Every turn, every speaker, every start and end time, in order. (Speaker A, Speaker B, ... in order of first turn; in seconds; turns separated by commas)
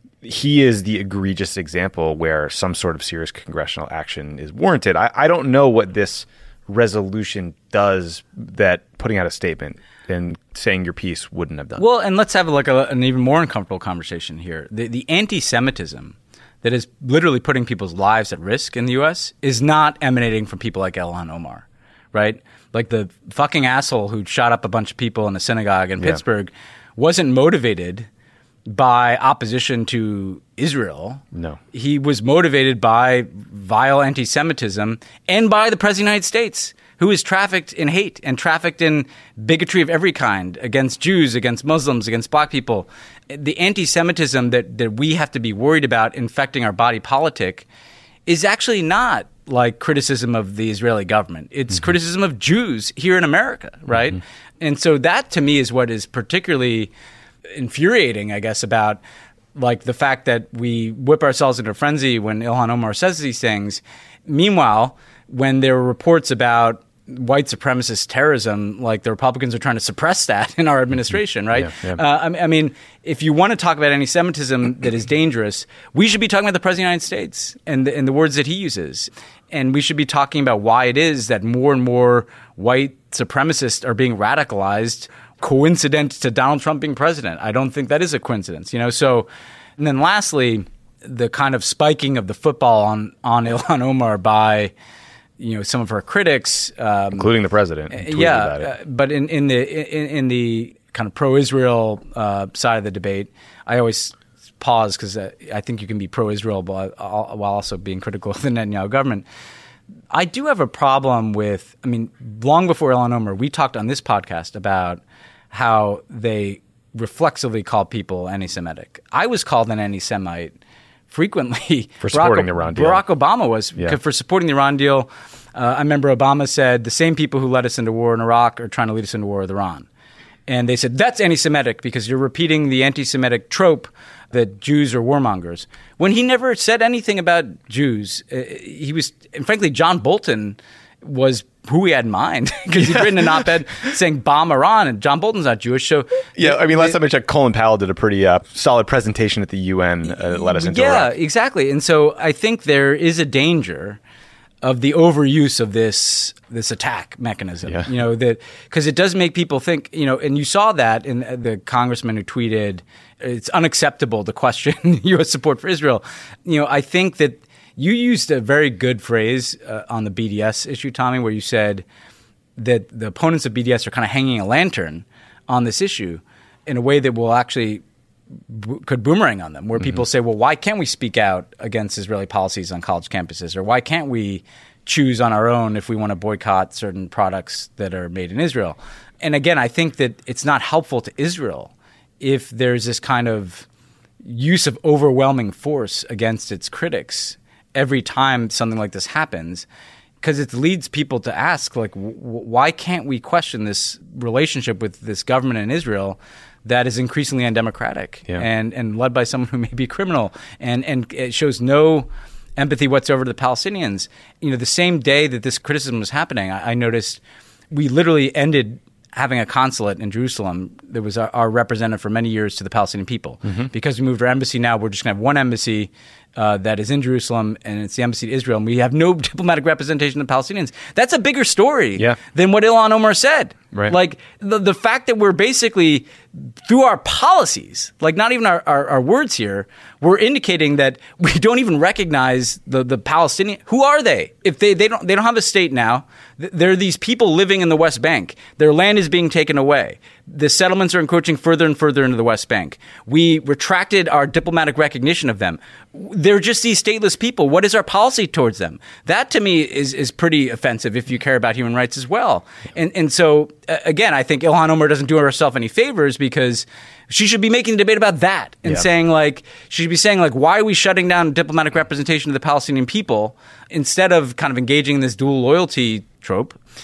Speaker A: 0.2-11.8, Speaker B: 11.8-28.1, Speaker B: 28.6-47.6, Speaker A: 31.3-31.6, Speaker B: 48.3-56.9, Speaker B: 57.5-59.0, Speaker B: 59.5-94.7, Speaker A: 71.5-72.0, Speaker B: 95.4-97.3, Speaker A: 97.1-98.7, Speaker B: 97.9-109.3, Speaker B: 110.1-120.5, Speaker B: 121.1-129.9, Speaker A: 122.0-123.0, Speaker B: 130.5-147.0, Speaker A: 142.8-143.4, Speaker A: 146.3-151.1, Speaker B: 150.3-154.0, Speaker B: 154.6-171.8, Speaker B: 172.6-177.8, Speaker B: 178.5-193.7, Speaker B: 194.2-199.7, Speaker B: 200.2-276.6